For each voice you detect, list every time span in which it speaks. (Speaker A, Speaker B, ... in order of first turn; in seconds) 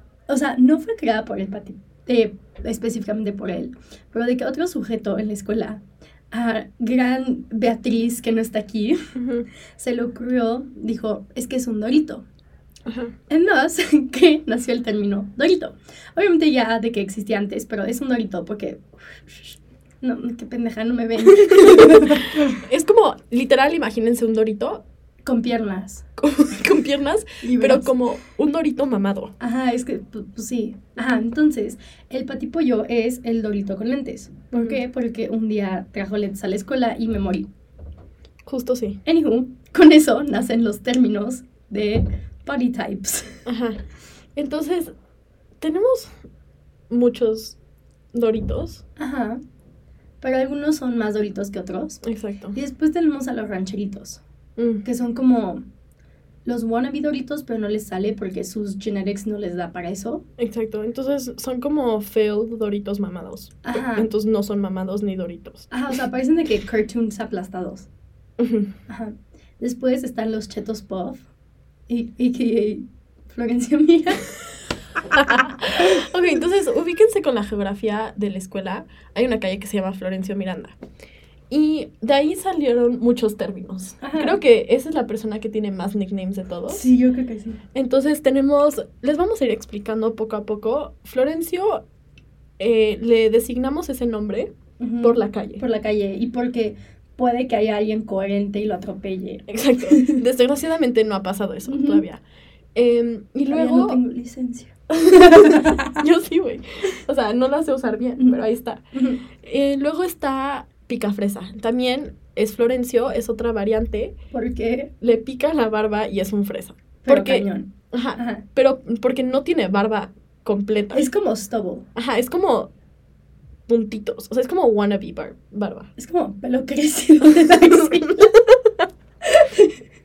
Speaker A: 0.3-9.1, 9.8-12.2, 13.3-22.6, 25.2-26.1, 27.4-27.9, 29.4-37.5, 39.0-43.4, 49.0-49.4, 50.2-52.0, 52.5-54.2, 54.8-55.7, 56.5-60.2, 63.6-64.1, 65.7-67.9, 68.9-71.2, 71.9-74.3, 84.0-84.4, 86.7-87.6, 94.8-100.2, 101.7-102.0, 103.5-106.0, 108.9-109.2, 114.3-114.9, 117.0-118.4, 120.9-121.9, 126.0-128.3, 129.2-129.8
Speaker B: 9.1-9.5, 12.9-13.1, 21.2-24.8, 26.2-29.3, 34.5-34.8, 38.5-39.0, 43.5-43.8, 44.4-44.9, 45.6-46.1, 46.9-47.6, 48.1-48.8, 52.0-52.6, 54.6-54.8, 60.4-65.7, 68.4-68.7, 75.1-80.8, 81.5-86.8, 87.7-91.8, 92.6-95.6, 99.5-102.2, 102.8-104.0, 105.0-108.8, 109.4-114.1, 115.0-121.1, 122.0-122.7, 123.7-125.9, 127.2-128.9